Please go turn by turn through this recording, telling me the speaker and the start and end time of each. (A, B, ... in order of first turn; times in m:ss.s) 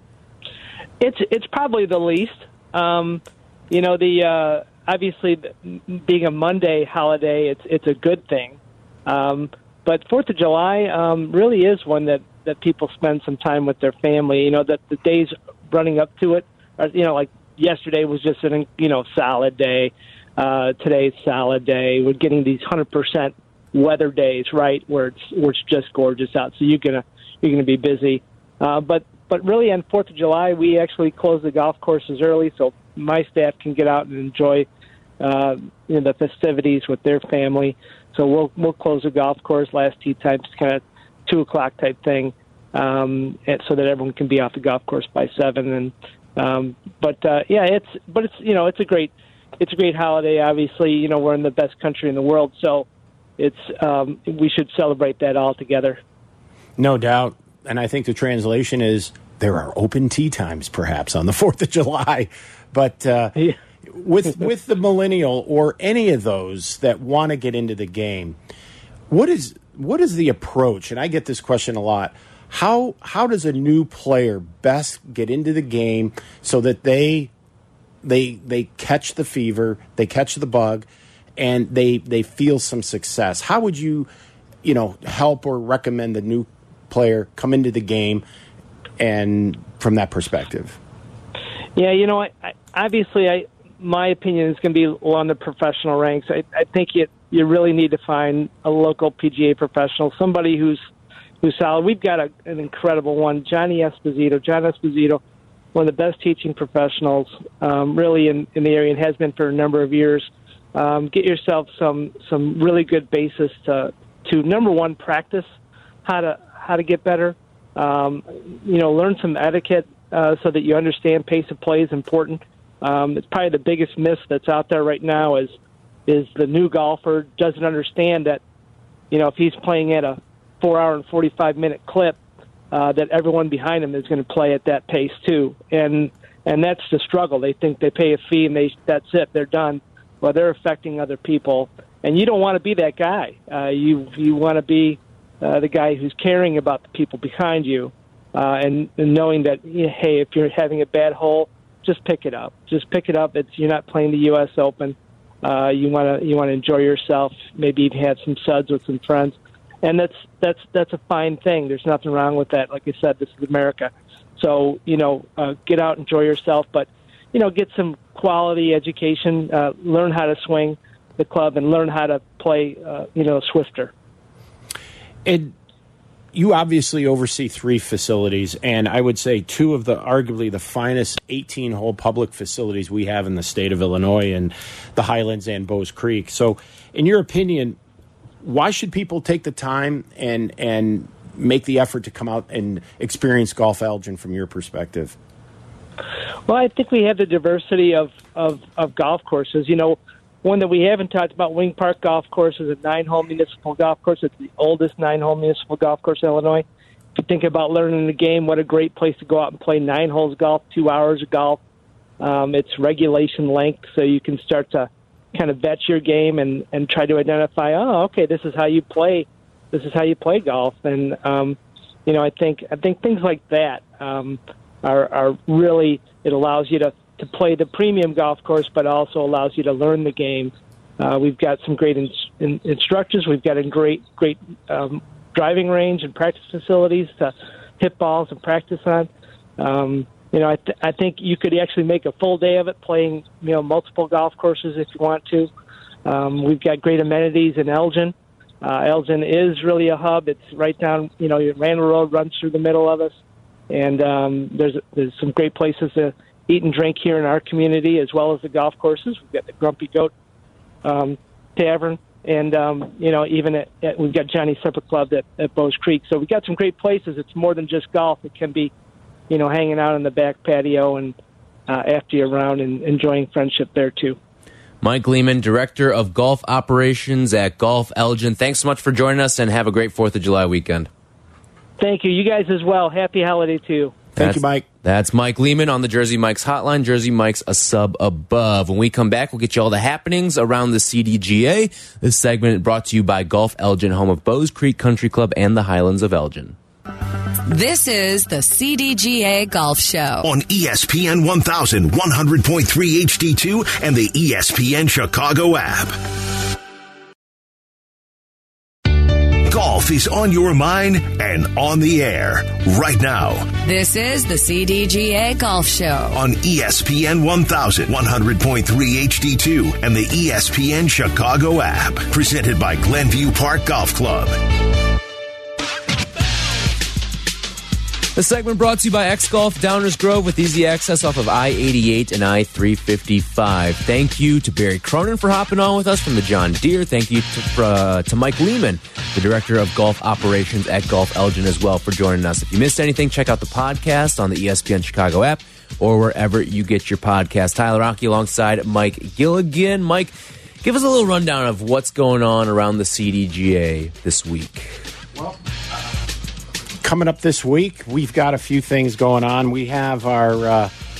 0:01.0-0:34.7 A
0:35.2-0:52.9 A
0:53.4-0:56.0 A
0:56.8-1:03.3 B
1:03.9-1:08.4 B
1:09.1-1:17.3 B
1:18.0-1:20.9 B
1:21.4-1:24.1 B
1:24.6-1:28.2 B
1:29.0-1:30.8 B
1:31.8-1:40.8 A
1:41.4-1:45.2 A
1:45.7-1:55.5 A
1:56.0-2:05.6 A
2:06.1-2:08.4 A
2:09.1-2:12.2 A
2:12.7-2:53.9 A
2:55.2-2:55.5 B
2:56.3-3:07.8 B
3:08.4-3:15.2 B
3:16.5-3:31.6 A
3:32.2-4:05.5 A
4:06.0-4:13.1 A
4:13.7-4:20.1 A
4:20.8-4:28.7 A
4:29.3-4:31.2 A
4:31.7-4:34.2 A
4:34.8-4:40.9 C
4:41.8-4:43.9 A
4:44.1-4:44.6 B
4:44.2-4:56.6 C
4:57.4-5:00.3 D
5:00.2-5:06.0 E
5:09.4-5:13.5 E
5:13.6-5:16.2 D
5:16.1-5:24.4 E
5:28.2-5:54.7 C
5:56.8-6:00.7 B